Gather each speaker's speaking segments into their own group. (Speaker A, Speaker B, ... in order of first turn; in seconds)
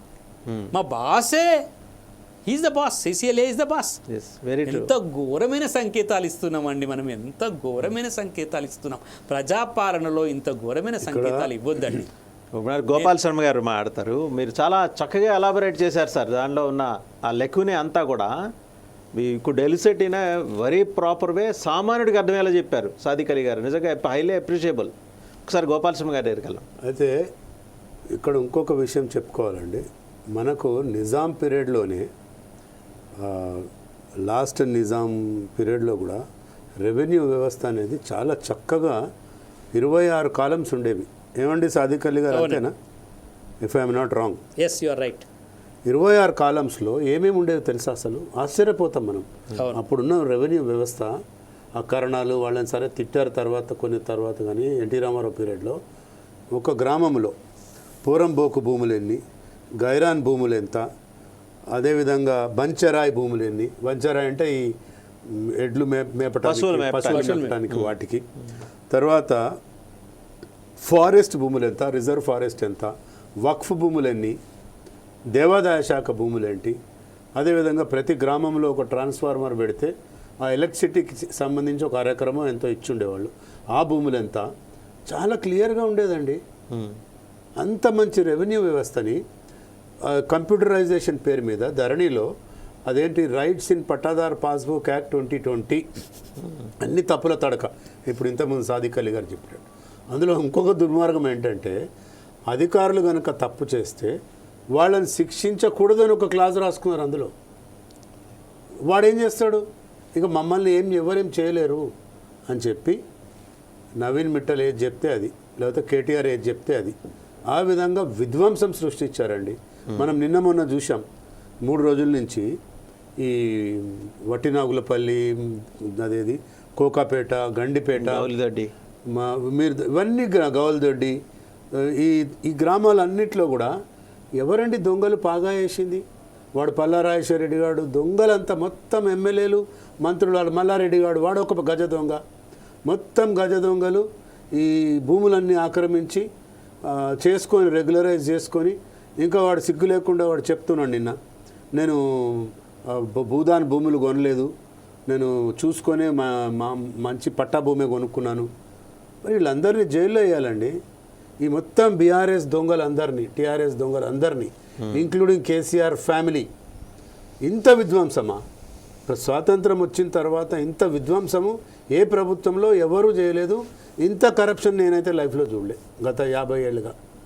Speaker A: 0.7-1.6, 2.5-4.0, 4.6-12.1, 42.3-42.6, 44.6-45.2, 49.5-49.8, 67.1-67.6
Speaker B: 4.1-4.9, 12.5-18.3, 19.1-24.9, 25.5-26.6, 66.4-67.9, 86.7-87.0, 128.0-128.7
Speaker C: 11.0-12.0, 26.8-27.2, 28.2-29.8, 30.3-32.1, 33.2-33.7, 34.2-36.2, 36.8-39.0, 39.7-42.7, 43.6-44.4, 45.9-51.1, 51.8-55.8, 56.5-57.3, 58.0-59.2, 59.8-60.8, 61.7-64.7, 65.3-68.2, 68.9-69.4, 70.8-74.4, 75.3-76.8, 77.3-84.5, 85.1-86.4, 87.6-89.2, 90.0-92.3, 92.9-95.8, 96.8-101.8, 102.5-104.1, 104.7-107.3, 108.8-111.9, 112.5-113.0, 114.0-117.0, 117.5-121.0, 121.6-122.5, 123.2-128.3, 129.1-131.2, 131.7-133.7, 134.4-136.0, 136.5-142.2, 142.9-146.2, 146.8-151.1, 151.7-154.5, 155.1-158.5, 159.2-160.7, 161.4-166.5, 167.4-168.4, 169.1-176.9